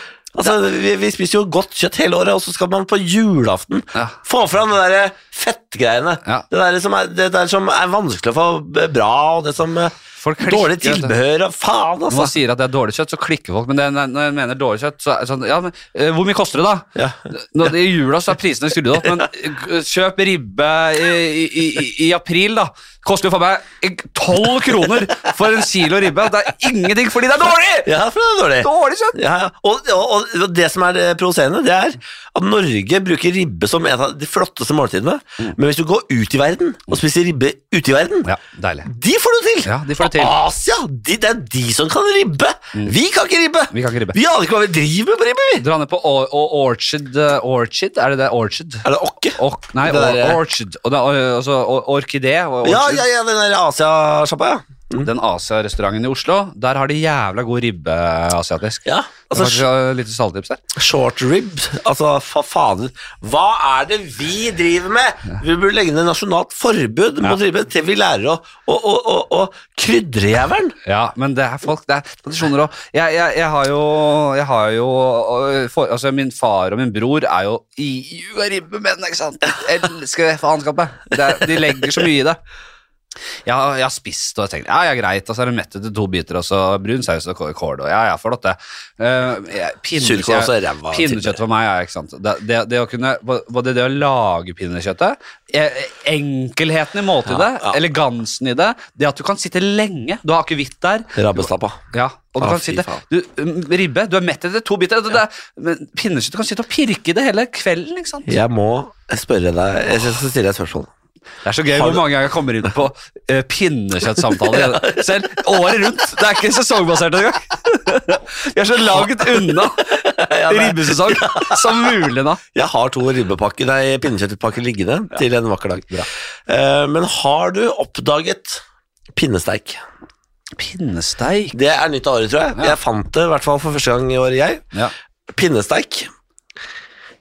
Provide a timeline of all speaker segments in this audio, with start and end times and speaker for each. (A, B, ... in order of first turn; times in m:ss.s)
0:00.3-0:12.3 A
0:10.2-0:11.2 B
0:12.1-0:27.9 B
0:27.8-0:38.3 A
0:28.6-0:29.2 B
0:38.2-0:38.9 B
0:38.8-0:45.6 A
0:39.6-0:40.4 B
0:43.7-0:44.2 B
0:45.6-0:53.0 B
0:48.8-0:50.4 A
0:52.6-0:55.1 A
0:55.0-1:00.6 B
0:58.8-0:59.6 A
1:00.7-1:10.7 A
1:10.8-1:22.4 B
1:23.4-1:48.4 B
1:30.0-1:31.4 A
1:37.2-1:37.8 A
1:41.1-1:41.8 A
1:42.4-1:43.0 A
1:48.3-1:50.9 A
1:51.4-2:02.4 B
1:51.7-1:52.0 A
1:54.4-1:55.0 A
1:58.9-2:02.0 A
2:02.5-2:09.8 A
2:10.6-2:11.6 B
2:11.5-2:14.6 A
2:15.3-2:16.1 A